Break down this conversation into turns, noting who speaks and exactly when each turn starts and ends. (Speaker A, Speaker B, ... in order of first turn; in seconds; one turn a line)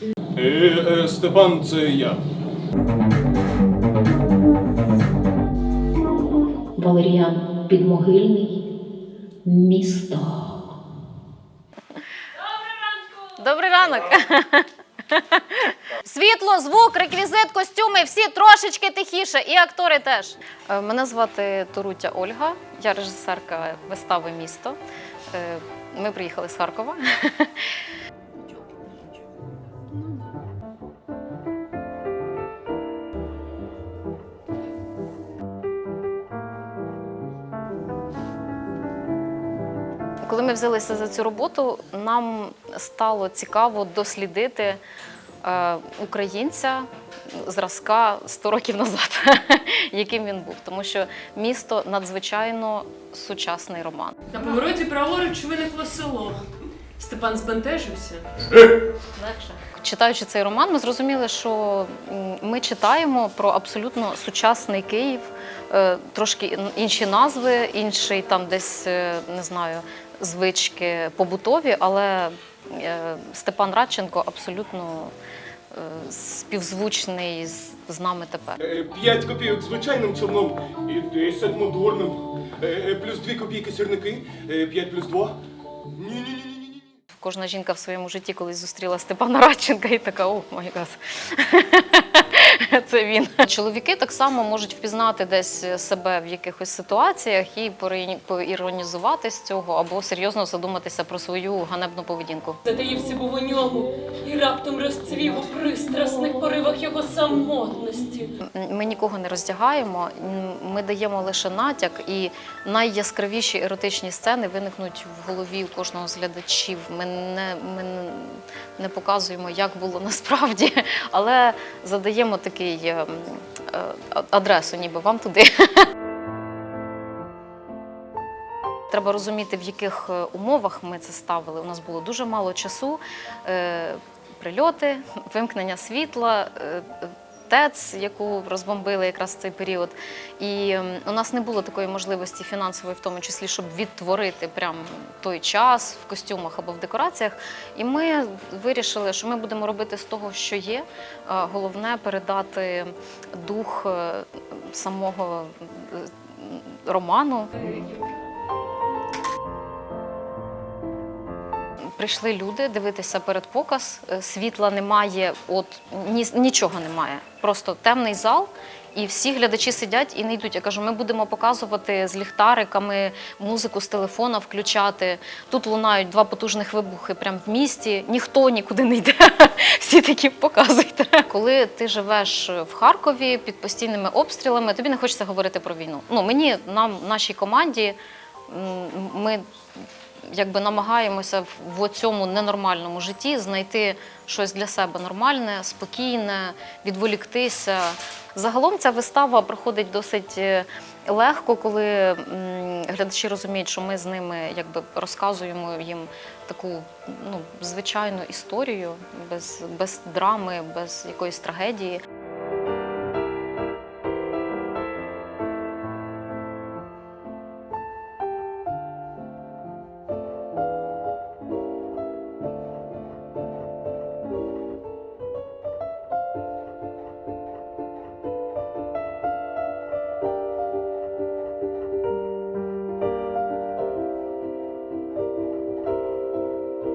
Speaker A: 0.3-2.2
Speaker B: 6.8-8.6
Speaker B: 9.4-10.6
Speaker C: 12.4-13.3
Speaker D: 13.4-24.8
Speaker D: 25.3-27.7
Speaker D: 40.2-44.8
Speaker D: 45.4-54.2
Speaker C: 54.3-56.4
Speaker C: 57.0-58.3
Speaker D: 59.1-75.1
Speaker D: 75.7-78.6
Speaker A: 78.6-85.4
Speaker A: 85.9-86.9
Speaker D: 87.1-102.6
Speaker C: 102.7-108.3
Speaker D: 108.4-125.8
Speaker D: 128.9-157.7
Speaker D: 161.9-188.0
Speaker D: 188.5-189.4
Speaker D: 190.3-212.0